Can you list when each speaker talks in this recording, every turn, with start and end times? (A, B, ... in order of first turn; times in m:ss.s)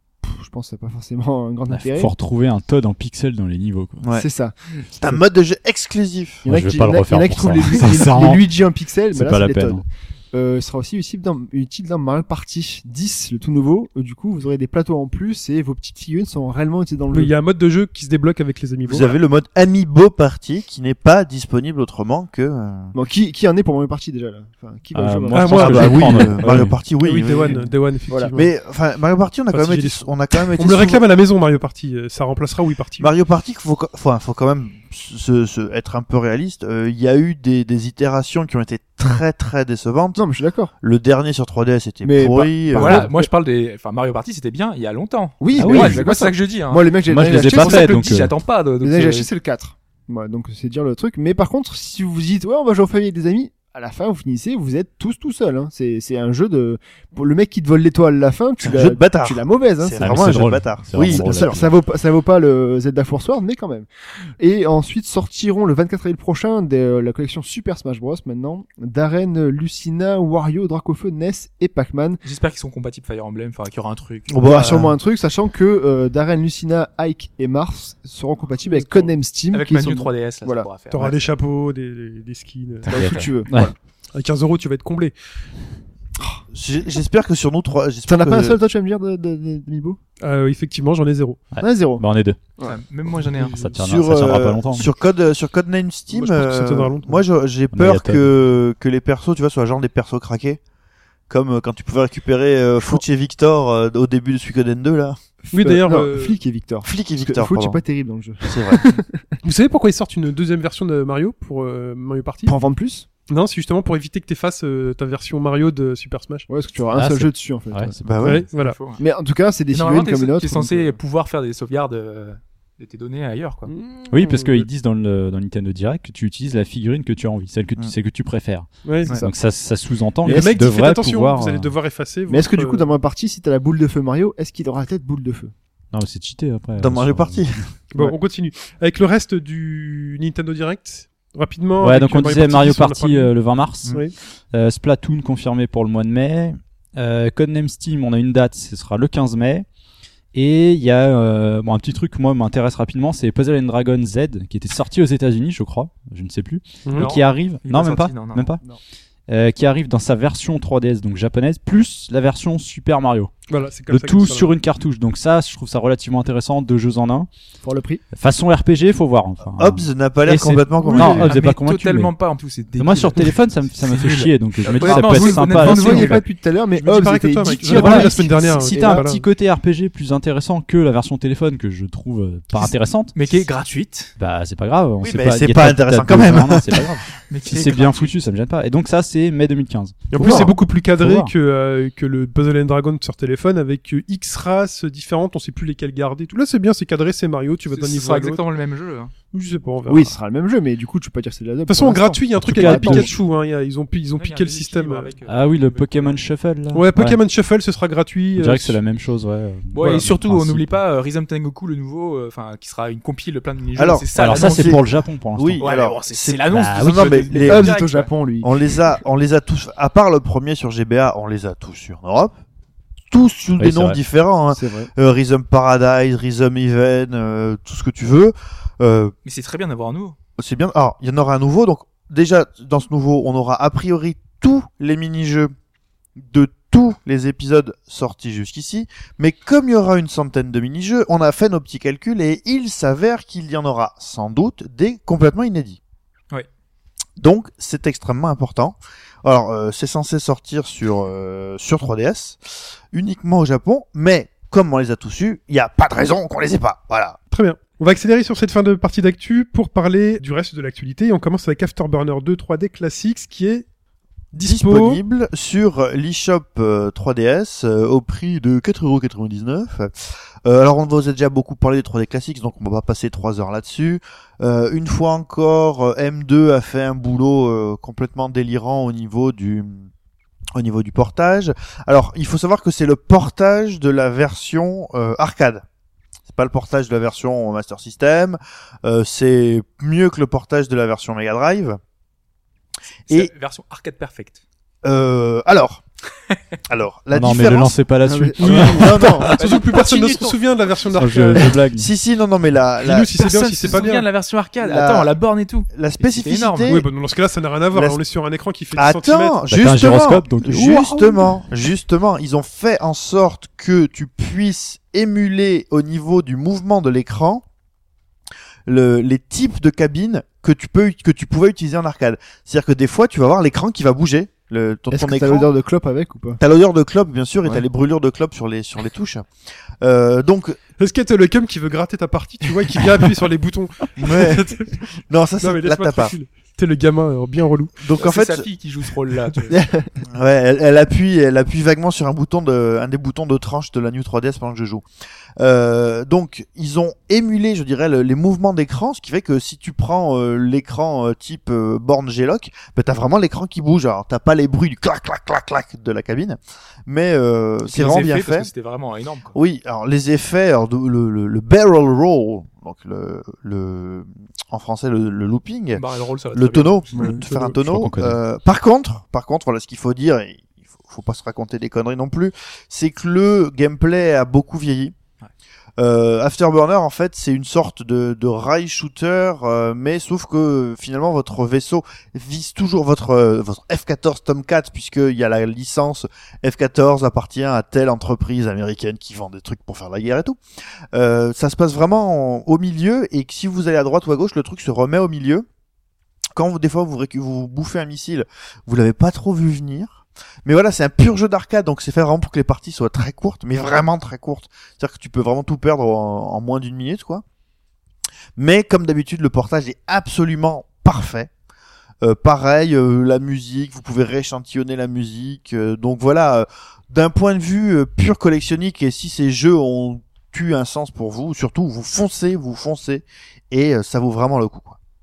0:00.2-0:02.1 A
0:01.7-0:04.0 B
0:04.1-0:05.2 A
0:05.0-0:06.4 C
0:06.4-0:17.3 A
0:06.5-0:08.4 B
0:09.1-0:09.8 B
0:17.1-0:19.2 D
0:18.8-0:22.9 C
0:22.9-0:26.3 A
0:24.9-0:26.8 B
0:25.3-0:26.3 D
0:25.5-0:27.7 C
0:27.0-0:28.5 D
0:28.1-0:28.4 A
0:28.3-0:31.1 C
0:29.5-0:33.1 D
0:33.0-0:40.2 C
0:40.2-0:40.7 A
0:40.8-0:43.1 C
0:42.0-0:43.3 A
0:42.7-0:46.9 E
0:45.4-0:48.0 A
0:45.6-0:46.0 B
0:47.1-0:48.3 B
0:47.4-0:49.3 E
0:48.8-1:00.4 A
0:58.6-1:01.4 C
1:00.0-1:01.7 B
1:01.0-1:12.2 A
1:12.2-1:14.8 E
1:14.3-1:15.0 C
1:14.4-1:21.1 A
1:18.6-1:19.1 D
1:19.5-1:21.1 E
1:20.9-1:23.2 D
1:22.9-1:23.7 B
1:22.9-1:23.7 A
1:24.1-1:25.2 D
1:26.5-1:28.6 C
1:28.1-1:30.0 A
1:30.2-1:31.4 D
1:31.5-1:32.4 B
1:31.6-1:32.0 A
1:32.6-1:33.7 E
1:33.4-1:34.9 B
1:33.8-1:40.6 C
1:36.1-1:37.2 D
1:37.7-1:38.3 B
1:41.3-1:45.2 C
1:45.5-1:49.3 A
1:45.5-1:46.4 D
1:46.8-1:47.8 C
1:48.5-1:48.8 C
1:49.4-1:52.6 D
1:52.5-1:53.1 A
1:53.3-1:56.5 D
1:56.5-1:58.1 A
1:56.9-1:58.4 B
1:58.0-1:58.4 C
1:58.2-1:58.8 D
1:58.5-1:59.0 E
1:58.9-2:01.0 A
1:59.7-2:03.7 E
2:03.7-2:04.7 D
2:04.1-2:11.7 B
2:08.8-2:09.2 D
2:10.2-2:10.6 A
2:10.2-2:12.8 D
2:12.3-2:15.5 A
2:15.9-2:17.5 B
2:16.8-2:17.7 C
2:17.9-2:23.3 D
2:21.8-2:24.0 B
2:24.5-2:29.7 B
2:30.3-2:38.6 B
2:36.8-2:37.2 D
2:36.9-2:38.5 E
2:39.3-2:43.3 B
2:43.5-2:44.5 D
2:43.9-2:47.3 B
2:47.6-2:48.0 A
2:48.1-2:52.1 B
2:49.6-2:51.3 C
2:50.9-2:51.2 D
2:50.9-2:56.2 E
2:52.8-2:56.2 B
2:54.7-2:59.1 A
2:56.8-2:59.2 D
2:57.6-3:03.2 B
3:02.6-3:04.1 E
3:04.2-3:11.3 B
3:05.0-3:07.0 C
3:07.3-3:08.2 E
3:10.1-3:18.4 D
3:17.7-3:19.1 E
3:19.3-3:20.1 D
3:19.9-3:23.1 A
3:21.7-3:25.2 D
3:22.4-3:23.1 B
3:24.2-3:26.2 E
3:25.3-3:27.2 B
3:26.7-3:28.8 D
3:28.4-3:30.8 B
3:29.7-3:34.8 E
3:33.8-3:34.8 C
3:34.2-3:35.6 B
3:35.4-3:37.7 C
3:35.6-3:38.1 E
3:36.5-3:37.2 B
3:37.4-3:38.8 A
3:38.4-3:42.4 C
3:43.1-3:49.1 C
3:43.6-3:44.0 B
3:44.5-3:44.9 A
3:49.2-3:50.2 E
3:50.4-3:55.5 C
3:56.2-4:05.8 C
4:07.2-4:17.2 C
4:17.3-4:23.7 D
4:24.3-4:25.0 D
4:24.4-4:39.9 C
4:40.6-4:45.6 C
4:46.3-4:51.8 C
4:53.1-4:54.4 E
4:54.8-4:55.8 C
4:56.7-4:57.8 C
4:57.1-4:59.3 B
4:58.0-4:58.8 A
4:58.4-4:59.9 C
4:58.6-5:01.6 D
4:59.4-5:00.4 E
5:00.9-5:01.9 B
5:01.7-5:03.2 C
5:02.8-5:04.1 D
5:03.2-5:06.7 E
5:04.6-5:05.2 C
5:05.7-5:06.9 C
5:06.7-5:09.4 D
5:07.7-5:08.0 C
5:08.7-5:17.4 C
5:09.5-5:11.3 B
5:18.7-5:25.5 C
5:24.9-5:26.4 A
5:26.4-5:29.3 C
5:29.8-5:30.6 C
5:30.8-5:34.8 D
5:34.0-5:36.2 C
5:35.4-5:37.8 D
5:37.8-5:38.5 C
5:38.0-5:39.6 E
5:39.5-5:39.9 A
5:40.1-5:44.8 C
5:45.4-5:58.5 C
5:57.6-5:59.4 E
5:59.3-6:05.8 C
6:05.8-6:07.1 E
6:06.3-6:14.9 C
6:06.9-6:07.4 A
6:07.5-6:08.2 B
6:15.8-6:30.4 C
6:30.9-6:35.5 C
6:36.4-6:47.2 C
6:48.4-6:51.3 C
6:52.0-7:04.8 C